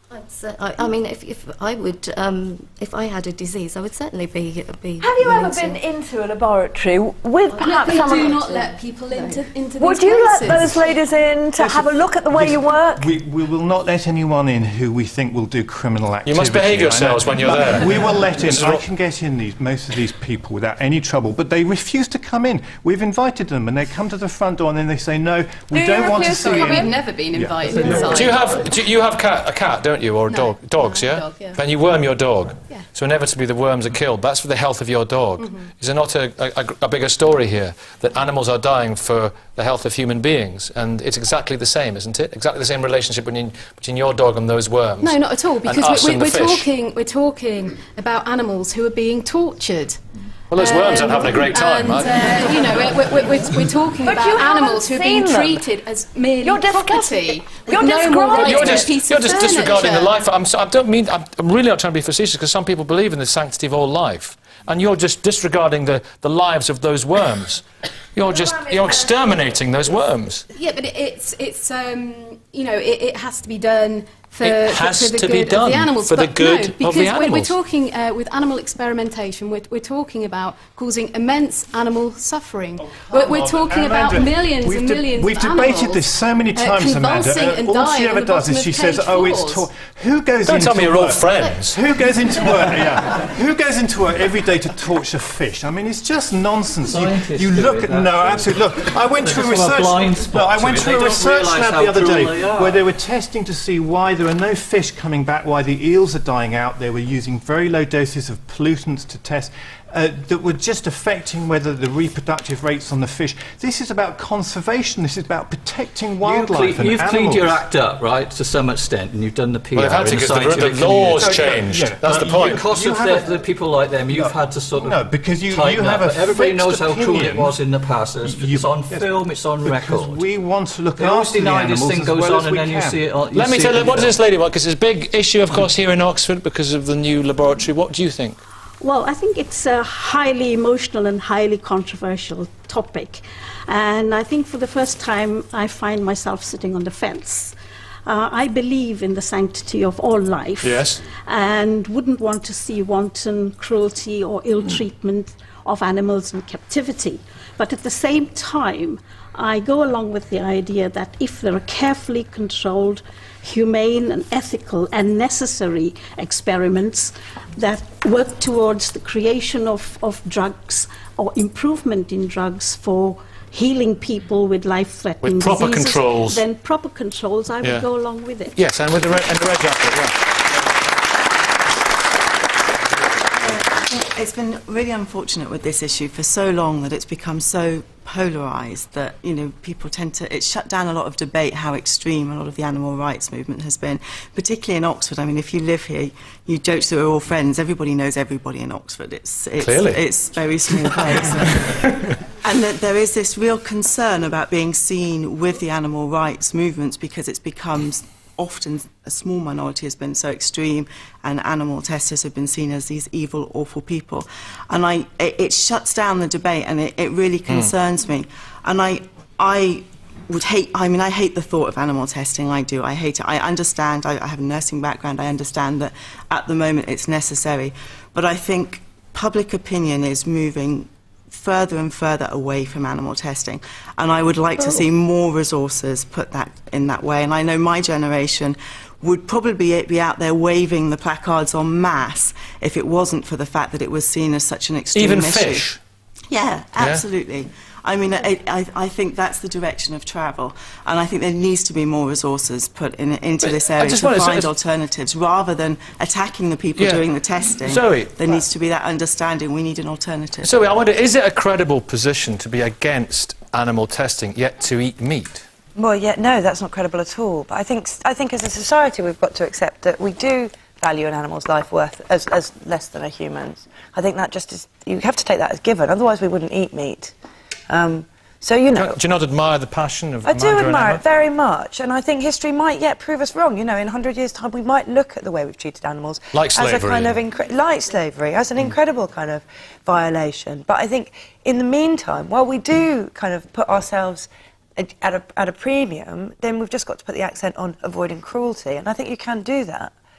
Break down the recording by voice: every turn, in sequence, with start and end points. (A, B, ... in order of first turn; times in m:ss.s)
0:00.1-0:05.8 A
0:05.0-0:08.4 B
0:07.5-0:08.6 A
0:07.6-0:10.9 C
0:09.8-0:13.1 B
0:11.6-0:28.3 D
0:16.2-0:18.8 E
0:25.7-0:26.9 B
0:26.3-0:28.6 C
0:28.0-0:46.7 E
0:30.3-0:31.6 C
0:35.4-0:35.6 C
0:45.0-0:50.0 C
0:50.5-0:52.3 E
0:50.5-1:00.1 C
0:54.0-0:55.6 B
0:56.4-0:58.9 B
0:58.4-1:10.4 E
1:10.5-1:29.6 C
1:14.4-1:17.5 E
1:22.8-1:57.6 D
1:30.4-1:31.8 E
1:36.8-1:42.8 F
1:56.2-2:10.2 F
1:59.7-2:02.7 E
2:01.1-2:03.4 D
2:04.0-2:07.6 D
2:08.2-2:13.2 D
2:11.0-2:14.1 F
2:13.3-2:18.4 E
2:18.8-2:27.5 G
2:28.0-2:58.6 G
2:30.6-2:31.0 E
2:55.2-2:56.4 E
2:58.5-3:00.3 E
3:03.4-3:21.6 H
3:19.6-3:20.0 E
3:21.5-3:22.0 E
3:22.4-4:05.7 H
4:04.9-4:05.8 E
4:06.3-4:20.7 H
4:06.8-4:07.0 E
4:13.4-4:14.5 E
4:16.8-4:17.0 E
4:17.6-4:18.1 E
4:20.4-4:25.4 E
4:25.8-4:37.1 I
4:37.7-4:39.0 I
4:38.7-4:41.0 E
4:40.2-4:59.9 I
4:46.3-4:47.2 E